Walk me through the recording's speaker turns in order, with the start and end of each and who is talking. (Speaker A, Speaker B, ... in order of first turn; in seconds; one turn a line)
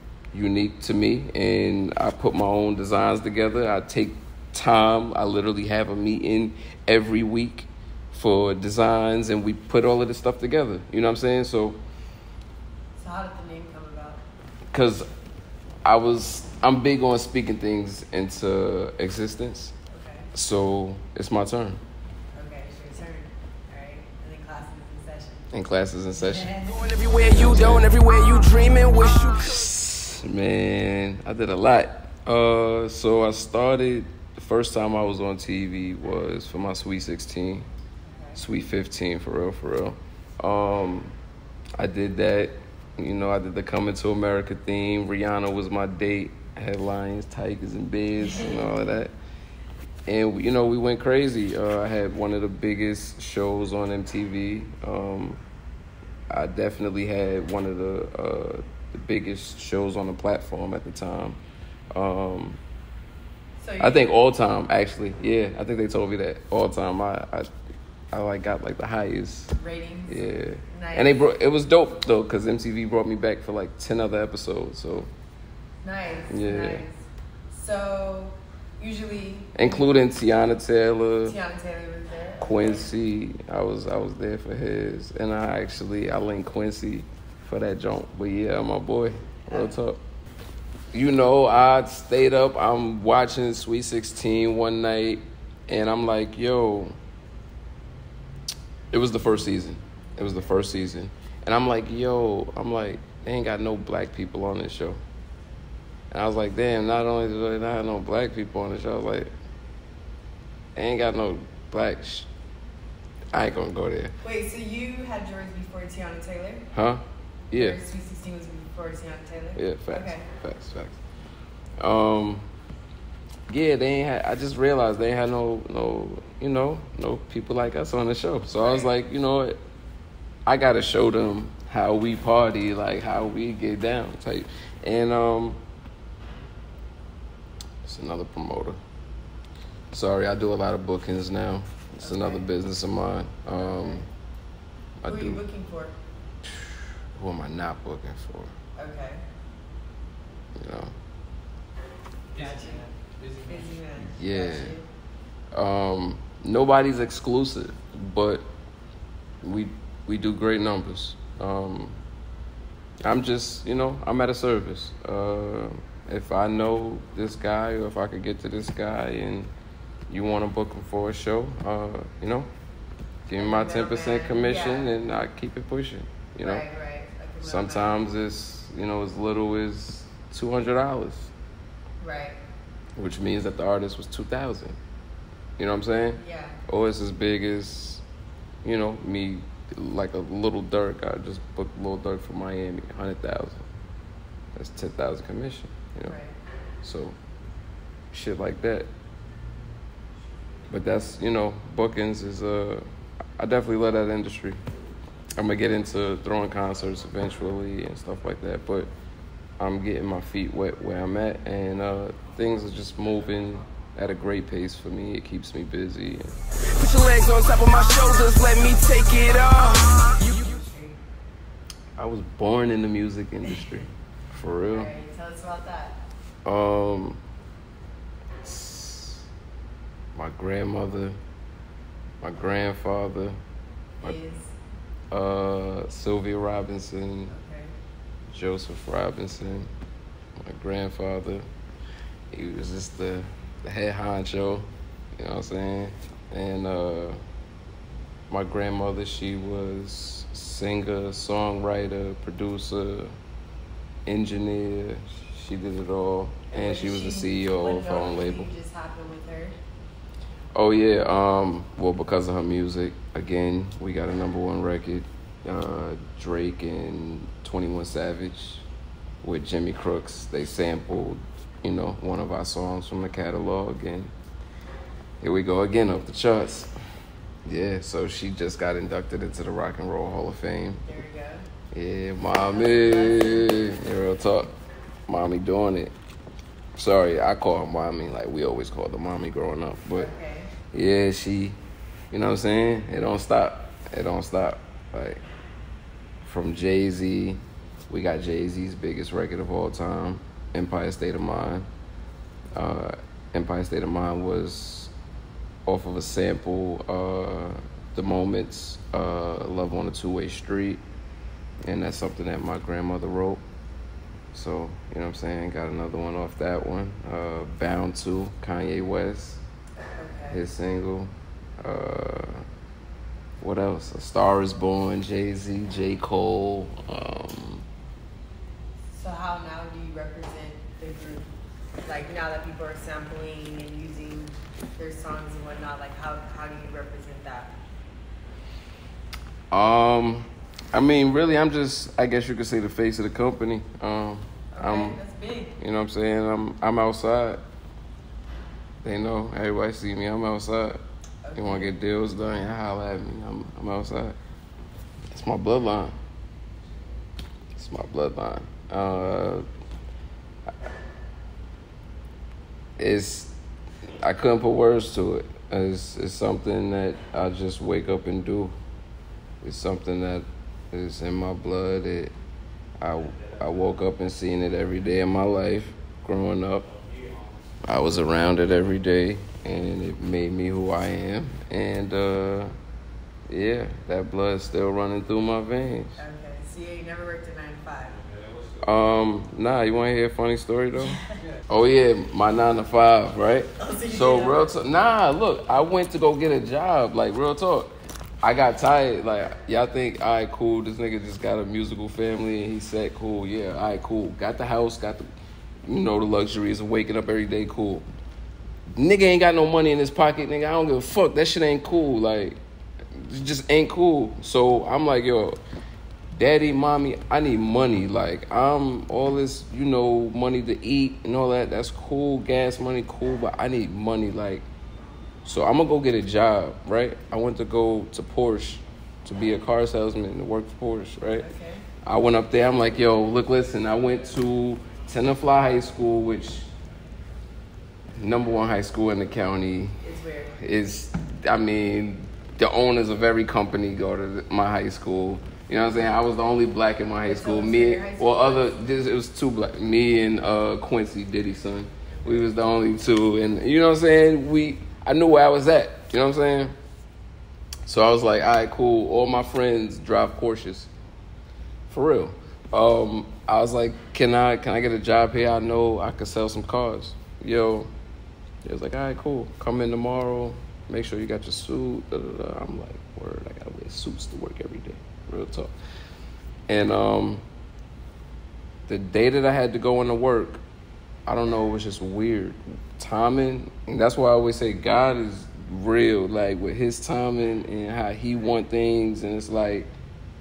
Speaker A: 0.3-11.8
Speaker B: 13.0-14.2
Speaker A: 14.7-15.0
Speaker A: 15.8-19.7
Speaker B: 19.9-20.3
Speaker A: 20.3-21.8
Speaker B: 22.3-25.5
Speaker A: 25.5-26.6
Speaker B: 26.1-27.0
Speaker C: 26.8-29.5
Speaker A: 27.1-28.0
Speaker A: 29.3-37.6
Speaker B: 38.0-38.4
Speaker A: 38.4-41.1
Speaker A: 41.8-49.1
Speaker B: 48.2-48.7
Speaker A: 50.1-55.4
Speaker A: 56.3-61.4
Speaker A: 61.9-62.6
Speaker B: 63.6-64.1
Speaker A: 63.8-67.5
Speaker A: 68.1-69.5
Speaker B: 69.6-71.2
Speaker A: 70.1-75.1
Speaker B: 75.8-79.9
Speaker A: 76.3-76.8
Speaker A: 79.5-81.4
Speaker B: 81.2-82.9
Speaker A: 82.4-90.0
Speaker A: 90.9-97.0
Speaker A: 98.9-105.0
Speaker A: 106.1-109.3
Speaker A: 110.8-112.3
Speaker A: 113.3-114.1
Speaker B: 114.2-116.7
Speaker A: 116.7-117.8
Speaker B: 117.5-120.2
Speaker A: 119.5-121.0
Speaker A: 121.8-122.5
Speaker A: 123.5-129.6
Speaker B: 128.6-128.9
Speaker A: 130.4-135.6
Speaker A: 137.8-138.8
Speaker A: 139.9-144.1
Speaker B: 142.0-142.5
Speaker B: 143.6-144.0
Speaker A: 145.0-145.4
Speaker B: 145.1-146.0
Speaker A: 146.4-148.5
Speaker B: 148.8-149.2
Speaker A: 150.6-150.9
Speaker B: 152.3-154.9
Speaker A: 154.0-154.8
Speaker A: 155.5-158.4
Speaker A: 159.4-162.0
Speaker A: 163.0-169.5
Speaker A: 170.1-172.5
Speaker A: 173.3-176.6
Speaker B: 173.3-174.9
Speaker B: 176.4-178.0
Speaker A: 177.4-181.3
Speaker B: 182.0-182.4
Speaker A: 182.9-184.8
Speaker A: 185.6-188.0
Speaker B: 186.1-186.6
Speaker A: 188.6-193.7
Speaker A: 194.5-196.1
Speaker B: 196.0-196.4
Speaker A: 196.8-197.2
Speaker A: 198.1-198.9
Speaker A: 200.7-202.8
Speaker A: 203.4-204.6
Speaker A: 205.4-208.9
Speaker A: 209.6-216.4
Speaker C: 216.7-220.2
Speaker A: 219.1-219.5
Speaker B: 220.2-221.0
Speaker A: 222.0-224.9
Speaker B: 223.4-223.8
Speaker B: 224.7-226.0
Speaker A: 226.4-227.2
Speaker A: 228.4-229.3
Speaker A: 230.1-231.2
Speaker A: 232.2-233.4
Speaker B: 234.0-234.5
Speaker A: 235.1-237.3
Speaker B: 237.3-237.7
Speaker A: 238.3-239.7
Speaker A: 240.4-241.4
Speaker A: 242.3-247.2
Speaker A: 248.3-253.1
Speaker A: 254.1-258.5
Speaker B: 256.5-259.6
Speaker A: 260.5-268.6
Speaker A: 269.2-274.1
Speaker A: 275.2-276.7
Speaker A: 277.4-280.8
Speaker B: 280.8-281.5
Speaker A: 281.7-284.5
Speaker B: 282.4-283.8
Speaker A: 285.1-285.9
Speaker A: 286.8-290.1
Speaker B: 289.9-290.5
Speaker A: 290.7-291.6
Speaker A: 292.1-295.2
Speaker A: 296.2-301.7
Speaker A: 302.5-304.9
Speaker A: 305.7-310.8
Speaker A: 311.6-313.4
Speaker A: 314.3-319.4
Speaker B: 320.0-320.4
Speaker A: 320.3-322.4
Speaker A: 323.4-327.6
Speaker B: 328.9-331.3
Speaker B: 331.8-337.5
Speaker A: 339.5-345.0
Speaker B: 344.5-345.6
Speaker A: 345.6-347.4
Speaker A: 348.8-350.8
Speaker B: 351.2-351.7
Speaker A: 351.4-354.1
Speaker A: 355.1-355.9
Speaker A: 357.5-359.4
Speaker A: 362.8-363.3
Speaker A: 364.0-368.5
Speaker A: 369.4-372.1
Speaker A: 372.8-376.7
Speaker A: 377.6-382.5
Speaker A: 383.3-386.0
Speaker B: 386.0-388.0
Speaker A: 388.6-397.7
Speaker B: 390.8-391.2
Speaker B: 393.6-394.4
Speaker A: 398.2-405.0
Speaker A: 405.6-407.9
Speaker A: 408.8-412.4
Speaker A: 412.9-415.4
Speaker A: 416.1-424.4
Speaker A: 425.2-431.3
Speaker B: 431.1-431.6
Speaker A: 431.8-436.5
Speaker A: 438.0-439.8
Speaker B: 439.8-440.4
Speaker A: 440.4-456.5
Speaker B: 447.0-448.5
Speaker B: 452.0-452.3
Speaker A: 457.7-460.7
Speaker A: 461.7-467.7
Speaker A: 468.4-475.5
Speaker A: 476.5-477.2
Speaker A: 478.7-480.4
Speaker A: 481.1-489.7